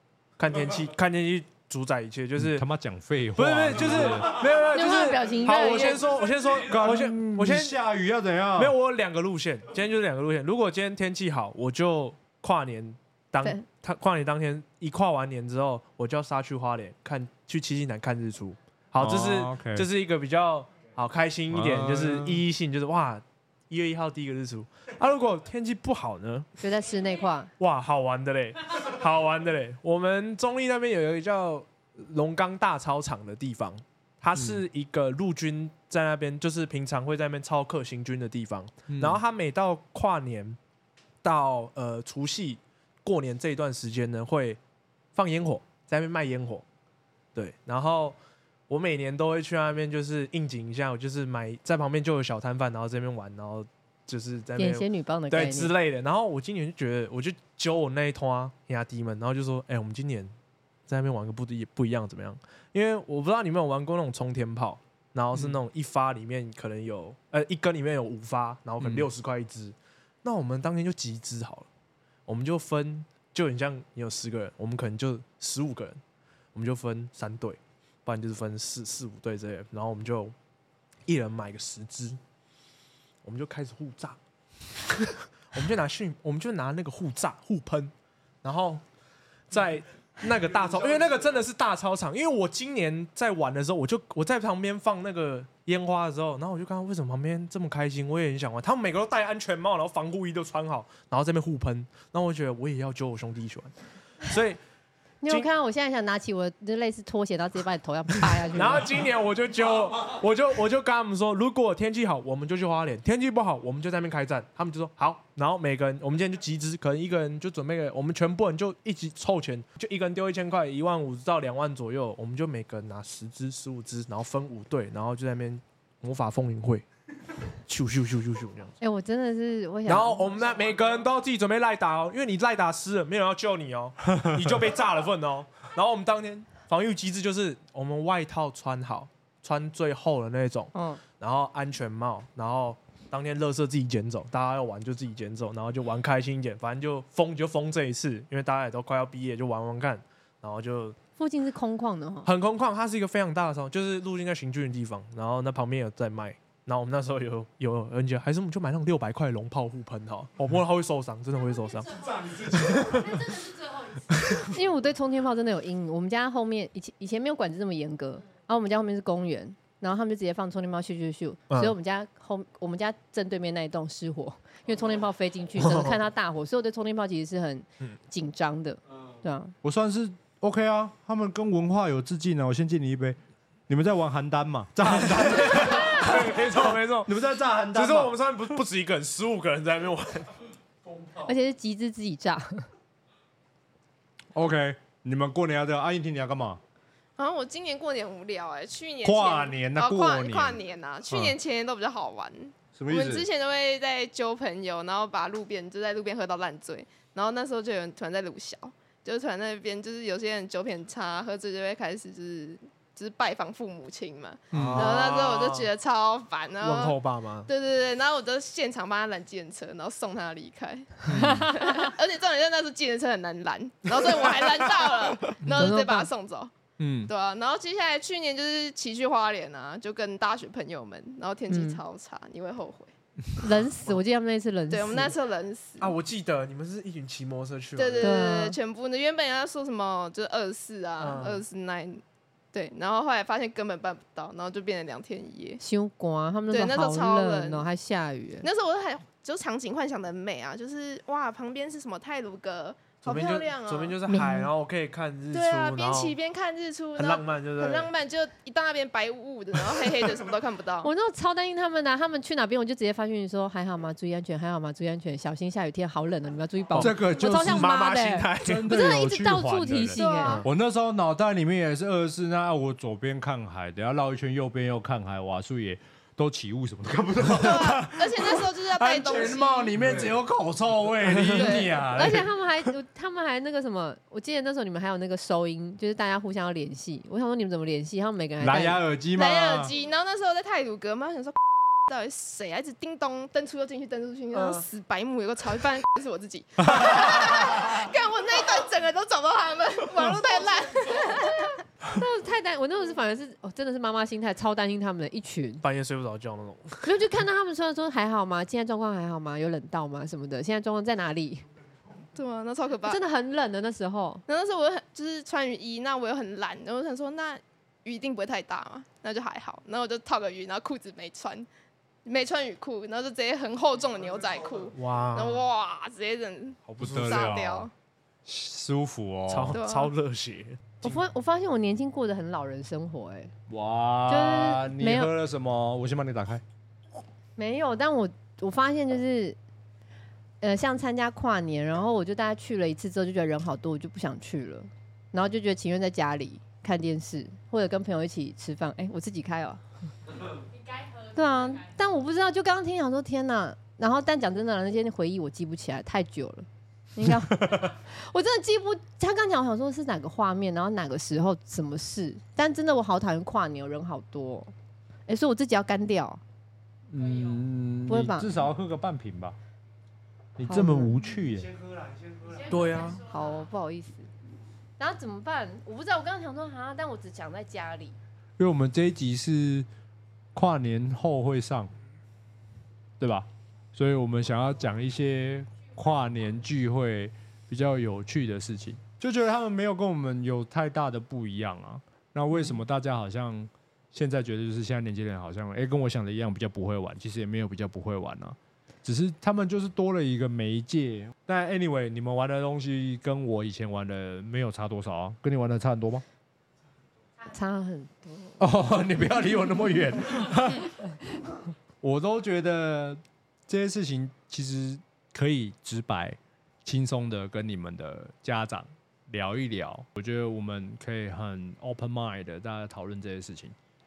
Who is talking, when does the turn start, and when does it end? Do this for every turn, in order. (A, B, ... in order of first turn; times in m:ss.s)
0:00.4-0:02.6 A
0:02.4-0:04.5 B
0:03.4-0:07.8 A
0:04.7-0:06.1 C
0:05.8-0:06.6 D
0:06.5-0:08.8 B
0:08.5-0:26.5 A
0:19.0-0:19.9 B
0:21.5-0:22.4 B
0:26.6-0:27.5 C
0:27.6-0:40.6 A
0:34.3-0:34.6 B
0:38.9-0:39.2 B
0:41.2-0:44.6 A
0:45.1-0:46.6 A
0:47.3-0:48.2 A
0:48.7-1:00.3 A
0:54.6-0:55.7 C
1:00.9-1:11.7 A
1:08.8-1:09.1 B
1:12.3-1:16.0 A
1:16.5-1:20.3 A
1:21.0-1:22.2 A
1:23.2-1:24.2 A
1:24.8-1:27.9 A
1:28.4-1:28.8 A
1:29.5-1:44.6 A
1:30.7-1:31.0 D
1:45.2-1:49.0 C
1:48.5-2:06.8 A
2:07.6-2:08.7 A
2:08.8-2:10.4 C
2:09.8-2:31.0 A
2:20.7-2:21.0 C
2:31.2-2:32.3 C
2:32.2-2:42.0 A
2:41.3-2:44.6 E
2:41.9-2:43.2 D
2:42.5-2:43.2 A
2:44.5-2:59.5 C
2:51.5-2:51.8 A
2:55.6-2:56.0 A
2:59.6-3:08.1 B
3:04.9-3:07.1 A
3:07.7-3:10.3 A
3:10.8-3:11.3 D
3:11.2-3:12.7 C
3:14.3-3:16.6 B
3:17.2-3:46.5 F
3:19.0-3:20.6 B
3:21.1-3:21.3 B
3:22.8-3:23.2 B
3:34.5-3:35.0 B
3:34.5-3:35.7 A
3:36.6-3:37.5 A
3:41.1-3:41.4 B
3:41.1-3:41.5 A
3:41.2-3:41.9 C
3:45.4-3:45.8 B
3:45.5-3:46.1 C
3:46.8-3:47.1 B
3:47.0-3:52.9 F
3:51.5-3:51.8 C
3:53.4-3:55.1 C
3:54.7-3:55.9 F
3:55.8-3:58.1 A
3:57.8-4:02.0 F
3:58.0-3:58.6 C
4:01.0-4:01.4 A
4:02.5-4:05.6 F
4:05.6-4:08.5 C
4:06.5-4:07.6 F
4:08.4-4:14.0 F
4:13.0-4:16.2 A
4:14.1-4:14.5 C
4:15.3-4:20.9 F
4:17.0-4:17.9 A
4:20.8-4:30.4 C
4:26.7-4:28.7 A
4:26.8-4:42.7 B
4:30.0-4:30.4 F
4:30.2-4:30.5 A
4:37.3-4:39.7 F
4:39.8-4:40.1 D
4:41.3-4:41.8 F
4:41.9-4:48.8 C
4:48.4-4:49.7 B
4:49.2-5:01.4 F
4:54.3-4:54.6 A
5:00.8-5:05.6 C
5:05.6-5:06.9 A
5:06.8-5:11.4 C
5:12.1-5:13.0 F
5:12.8-5:14.2 C
5:14.3-5:21.5 F
5:22.0-5:27.7 F
5:24.2-5:24.6 D
5:24.7-5:25.4 A
5:26.7-5:27.4 A
5:26.8-5:27.7 B
5:28.2-5:29.6 B
5:29.3-5:31.0 A
5:29.5-5:29.9 F
5:30.8-5:33.3 C
5:33.5-5:36.4 B
5:34.1-5:35.1 C
5:37.4-5:39.4 C
5:40.4-5:49.6 C
5:50.3-5:52.0 E
5:51.1-6:04.5 C
6:05.1-6:06.2 C
6:06.9-6:09.4 B
6:06.9-6:07.5 E
6:07.9-6:08.3 C
6:10.4-6:11.5 B
6:10.4-6:11.1 C
6:11.3-6:12.9 D
6:12.2-6:13.5 E
6:12.5-6:13.0 A
6:12.8-6:14.1 C
6:14.8-6:18.0 C
6:18.4-6:19.7 B
6:20.3-6:21.7 B
6:23.0-6:46.0 B
6:47.3-6:48.4 C
6:48.4-6:50.8 B
6:51.8-7:03.5 B